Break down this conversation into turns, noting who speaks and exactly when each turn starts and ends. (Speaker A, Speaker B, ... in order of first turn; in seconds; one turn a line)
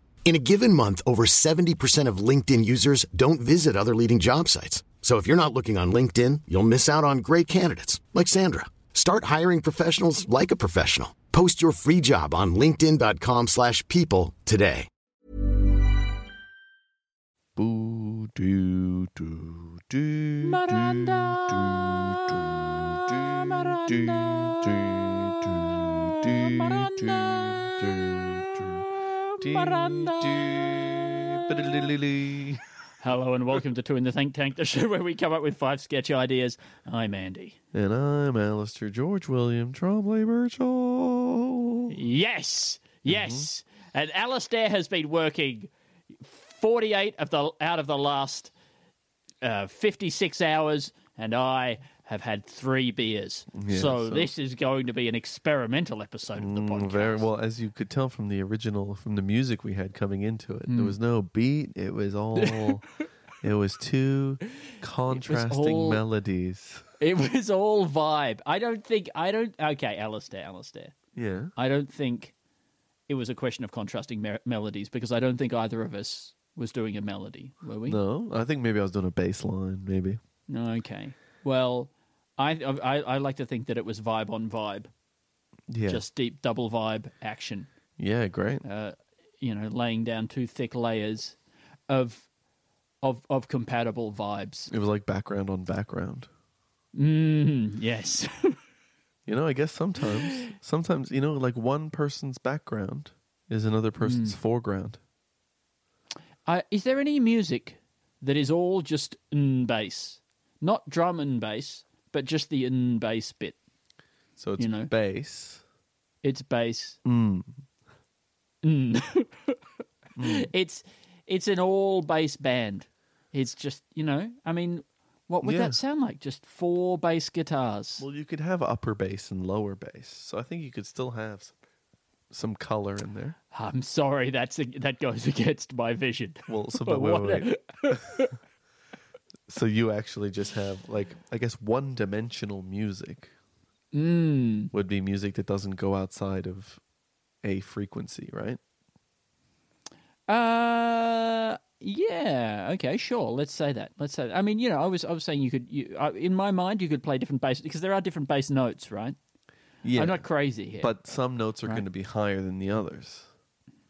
Speaker A: 0.2-14.9
Speaker B: 17.6-28.9
Speaker C: 20.4-31.9
Speaker B: 29.4-32.6
Speaker C: 33.0-37.6
Speaker B: 37.7-41.9
Speaker C: 41.9-48.5
Speaker B: 43.1-43.5
Speaker C: 49.4-57.3
Speaker B: 53.5-54.3
Speaker B: 56.4-62.8
Speaker C: 60.7-61.0
Speaker C: 62.4-62.8
Speaker B: 63.4-66.8
Speaker C: 65.1-66.0
Speaker C: 67.0-70.9
Speaker B: 71.1-71.5
Speaker C: 71.5-72.3
Speaker C: 73.1-78.0
Speaker B: 77.8-80.2
Speaker C: 80.5-84.9
Speaker B: 85.7-86.0
Speaker C: 85.8-87.7
Speaker B: 88.0-88.6
Speaker C: 88.6-91.4
Speaker C: 91.9-92.3
Speaker C: 93.0-94.7
Speaker B: 94.7-96.3
Speaker C: 96.9-98.6
Speaker B: 99.2-105.0
Speaker C: 104.0-104.4
Speaker C: 106.5-113.6
Speaker B: 114.4-115.6
Speaker C: 114.6-114.9
Speaker C: 116.2-117.0
Speaker B: 117.0-117.5
Speaker C: 118.6-119.6
Speaker B: 120.2-120.5
Speaker C: 120.2-128.0
Speaker B: 125.4-125.8
Speaker B: 128.0-131.5
Speaker B: 132.3-133.4
Speaker C: 133.5-138.3
Speaker B: 136.5-138.2
Speaker B: 139.5-143.3
Speaker C: 143.9-144.7
Speaker B: 144.7-146.8
Speaker B: 147.4-148.6
Speaker C: 150.3-159.2
Speaker B: 159.8-163.3
Speaker C: 159.9-160.9